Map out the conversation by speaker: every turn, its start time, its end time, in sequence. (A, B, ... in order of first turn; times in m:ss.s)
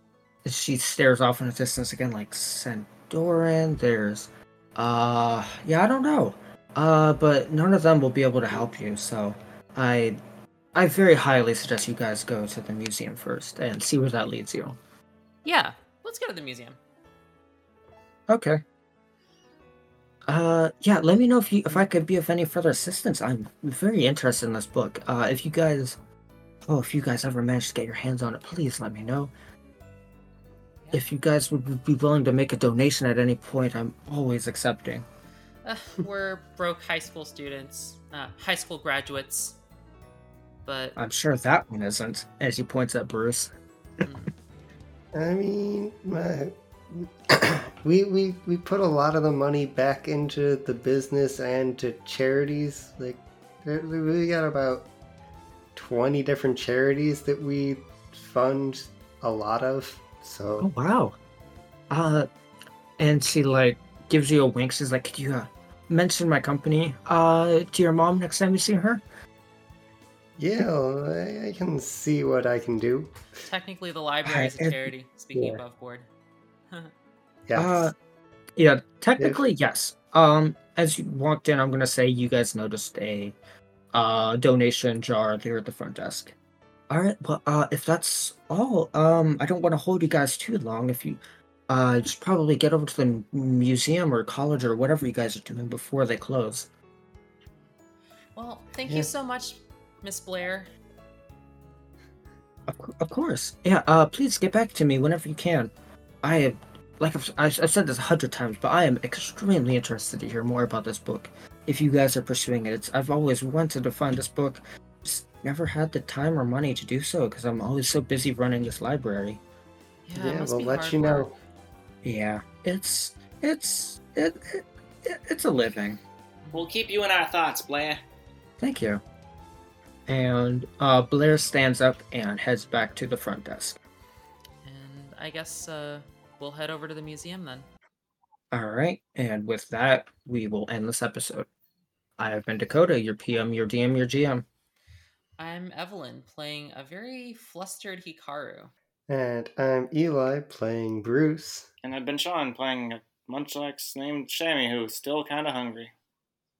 0:00.4-0:10.2 A
0:10.7-0:14.8 A
0:15.4-0:16.8 B
0:18.3-0:18.6 A
0:20.3-0:26.0 A
0:26.6-0:29.3 A
0:30.9-0:35.0 A
0:35.6-0:39.6 B
0:40.6-0:41.0 B
0:41.0-0:43.5 A
0:44.0-0:44.3 B
0:45.1-0:54.9 C
0:55.7-1:00.7 C
1:00.6-1:01.2 A
1:01.9-1:02.3 A
1:03.0-1:09.0 A
1:10.4-1:13.1 C
1:13.4-1:16.1 B
1:14.2-1:14.9 A
1:15.3-1:15.6 C
1:17.5-1:17.9 C
1:17.6-1:17.9 A
1:18.6-1:23.3 A
1:19.2-1:19.4 C
1:23.9-1:26.3 A
1:26.9-1:36.7 A
1:38.4-1:40.7 B
1:42.7-1:45.7 A
1:46.2-1:59.4 A
2:00.0-2:01.3 B
2:00.1-2:01.3 C
2:02.0-2:06.0 A
2:06.5-2:08.0 D
2:08.6-2:09.0 A
2:10.1-2:13.8 A
2:14.6-2:17.7 B
2:18.5-2:21.5 A
2:22.2-2:24.4 A
2:25.4-2:28.7 B
2:29.1-2:31.7 C
2:31.8-2:35.9 D